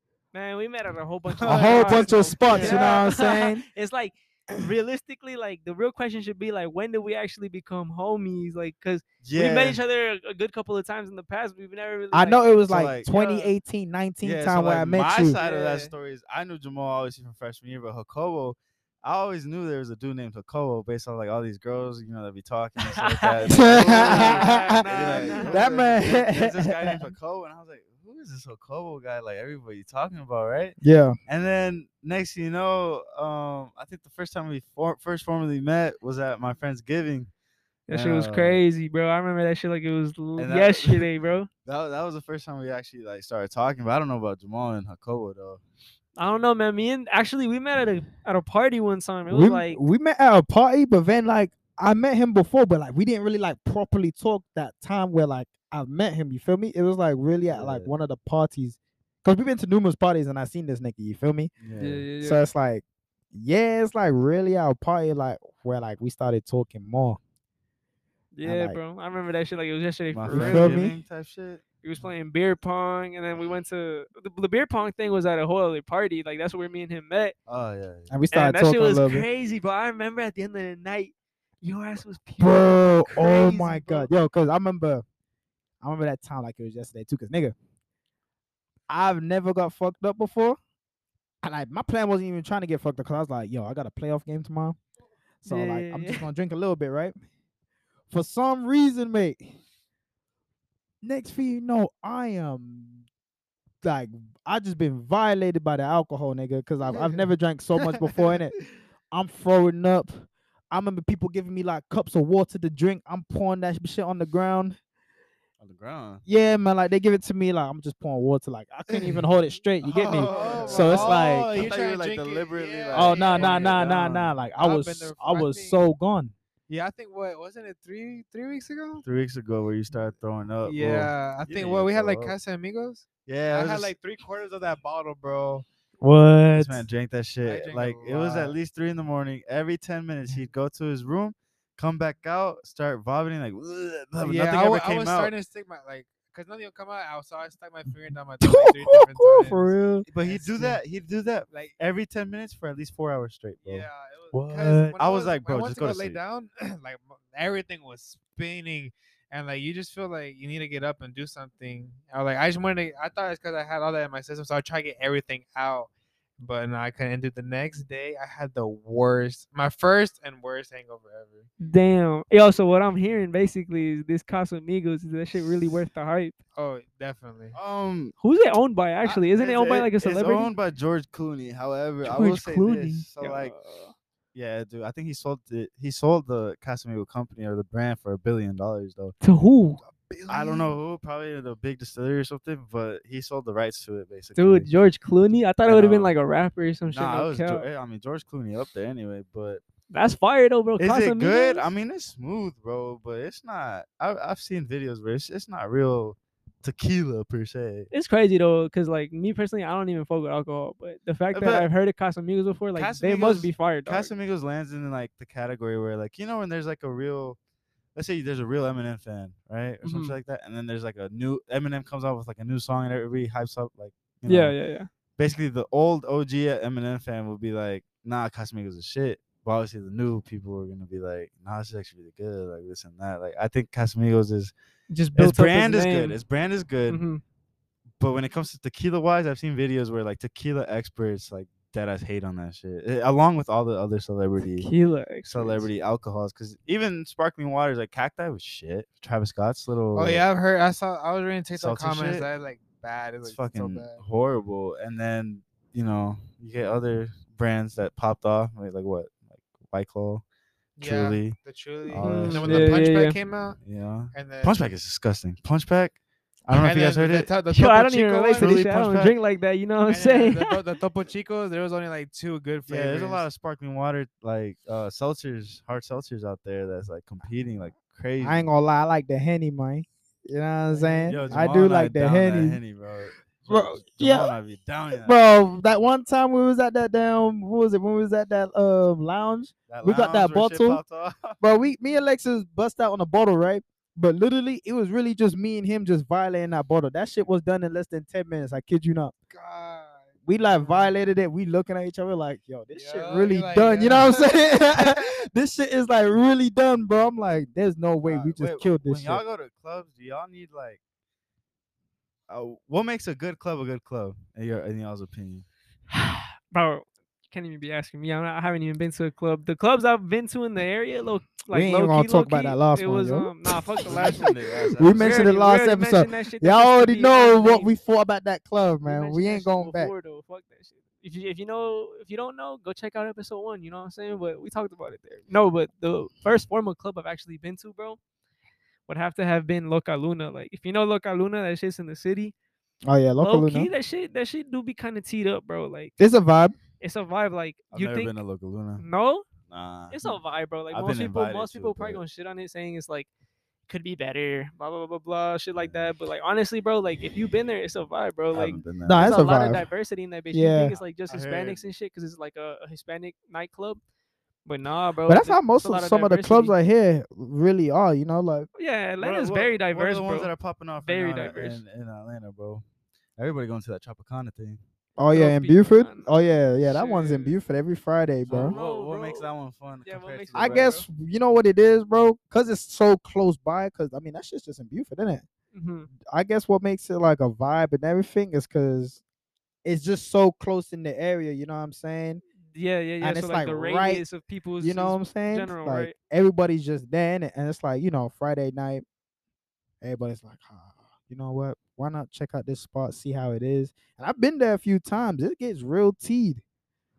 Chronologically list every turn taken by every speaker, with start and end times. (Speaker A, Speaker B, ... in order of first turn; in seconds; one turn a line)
Speaker A: 0.3-12.5
Speaker B: 1.4-3.6
Speaker C: 1.8-3.0
Speaker D: 9.2-9.8
Speaker B: 12.1-15.4
Speaker D: 12.7-13.1
Speaker A: 13.1-13.4
Speaker D: 14.2-30.8
Speaker C: 15.3-15.9
Speaker A: 22.9-25.7
Speaker B: 23.5-27.1
Speaker B: 30.8-31.2
Speaker D: 31.3-37.3
Speaker A: 37.9-41.5
Speaker D: 37.9-38.6
Speaker D: 40.4-41.1
Speaker D: 41.6-45.6
Speaker A: 46.2-49.8
Speaker B: 49.3-61.5
Speaker D: 57.5-57.9
Speaker D: 61.6-62.0
Speaker A: 61.8-62.5
Speaker B: 62.2-67.2
Speaker A: 68.3-70.9
Speaker B: 68.4-68.8
Speaker D: 70.1-71.6
Speaker B: 70.3-71.0
Speaker A: 71.8-77.3
Speaker D: 77.5-78.1
Speaker B: 78.1-79.3
Speaker A: 78.3-84.1
Speaker B: 82.4-85.0
Speaker B: 85.8-87.5
Speaker B: 88.9-90.6
Speaker B: 91.4-94.8
Speaker B: 95.4-97.1
Speaker A: 95.5-96.2
Speaker B: 98.1-99.5
Speaker B: 101.0-103.0
Speaker B: 103.8-108.6
Speaker B: 109.1-114.8
Speaker D: 115.6-116.2
Speaker B: 116.3-121.5
Speaker D: 118.9-119.2
Speaker D: 119.8-124.3
Speaker C: 120.1-123.9
Speaker B: 122.9-126.3
Speaker C: 124.6-125.8
Speaker C: 126.7-129.1
Speaker D: 129.0-132.3
Speaker C: 130.7-135.7
Speaker D: 133.3-133.9
Speaker B: 136.0-136.9
Speaker D: 136.6-145.3
Speaker C: 137.4-138.6
Speaker C: 144.2-150.8
Speaker B: 148.4-150.1
Speaker D: 150.1-156.2
Speaker C: 151.5-151.8
Speaker C: 153.6-171.5
Speaker A: 171.6-176.3
Speaker D: 175.4-175.8
Speaker C: 176.6-177.6
Speaker D: 177.6-178.1
Speaker A: 178.2-180.5
Speaker D: 179.0-183.5
Speaker A: 182.0-183.9
Speaker D: 184.3-189.2
Speaker A: 189.2-189.8
Speaker C: 190.0-190.7
Speaker D: 190.3-194.7
Speaker A: 194.4-197.7
Speaker D: 195.7-196.1
Speaker D: 196.9-199.6
Speaker A: 199.9-201.7
Speaker D: 200.8-207.9
Speaker A: 207.9-214.1
Speaker D: 211.3-211.7
Speaker D: 212.8-217.4
Speaker D: 217.9-224.6
Speaker A: 219.8-220.2
Speaker A: 224.3-224.9
Speaker D: 225.2-234.5
Speaker A: 234.9-236.2
Speaker D: 235.2-237.0
Speaker A: 236.9-237.2
Speaker D: 238.0-244.7
Speaker A: 244.6-245.7
Speaker D: 245.3-250.2
Speaker C: 249.9-254.0
Speaker D: 251.6-252.3
Speaker D: 253.2-260.2
Speaker C: 260.8-263.6
Speaker D: 260.8-261.4
Speaker D: 261.9-262.8
Speaker A: 262.0-263.2
Speaker D: 263.6-267.3
Speaker C: 264.1-264.6
Speaker C: 266.6-268.5
Speaker A: 267.5-270.6
Speaker D: 268.4-269.1
Speaker C: 269.9-273.2
Speaker D: 272.7-278.5
Speaker B: 278.2-282.6
Speaker C: 280.8-281.2
Speaker D: 281.1-285.1
Speaker B: 283.5-284.3
Speaker B: 284.9-290.8
Speaker D: 289.7-291.4
Speaker B: 291.4-299.1
Speaker C: 299.3-300.9
Speaker B: 300.2-309.2
Speaker C: 302.7-305.0
Speaker D: 308.0-310.8
Speaker D: 312.3-315.4
Speaker A: 315.9-324.4
Speaker B: 321.5-323.3
Speaker D: 323.8-325.4
Speaker B: 324.7-329.9
Speaker A: 324.9-327.8
Speaker A: 328.8-338.0
Speaker A: 338.9-342.3
Speaker B: 342.9-343.7
Speaker A: 343.2-345.9
Speaker B: 346.0-346.6
Speaker A: 346.8-348.2
Speaker D: 347.7-348.8
Speaker A: 348.8-349.2
Speaker D: 349.5-350.2
Speaker A: 349.9-353.1
Speaker D: 350.7-352.0
Speaker A: 353.7-363.8
Speaker D: 358.3-359.2
Speaker B: 358.8-359.7
Speaker B: 360.3-360.7
Speaker D: 361.1-361.7
Speaker A: 364.4-366.5
Speaker B: 365.1-368.5
Speaker A: 368.6-371.6
Speaker D: 369.0-372.6
Speaker D: 373.2-374.6
Speaker B: 375.0-378.6
Speaker A: 375.1-376.1
Speaker A: 376.7-377.4
Speaker D: 378.3-380.8
Speaker A: 378.3-379.3
Speaker A: 379.9-380.9
Speaker B: 380.4-385.2
Speaker A: 385.5-385.9
Speaker B: 386.0-389.0
Speaker B: 389.6-392.2
Speaker A: 392.5-395.9
Speaker B: 393.0-394.0
Speaker B: 394.6-398.9
Speaker B: 399.8-406.4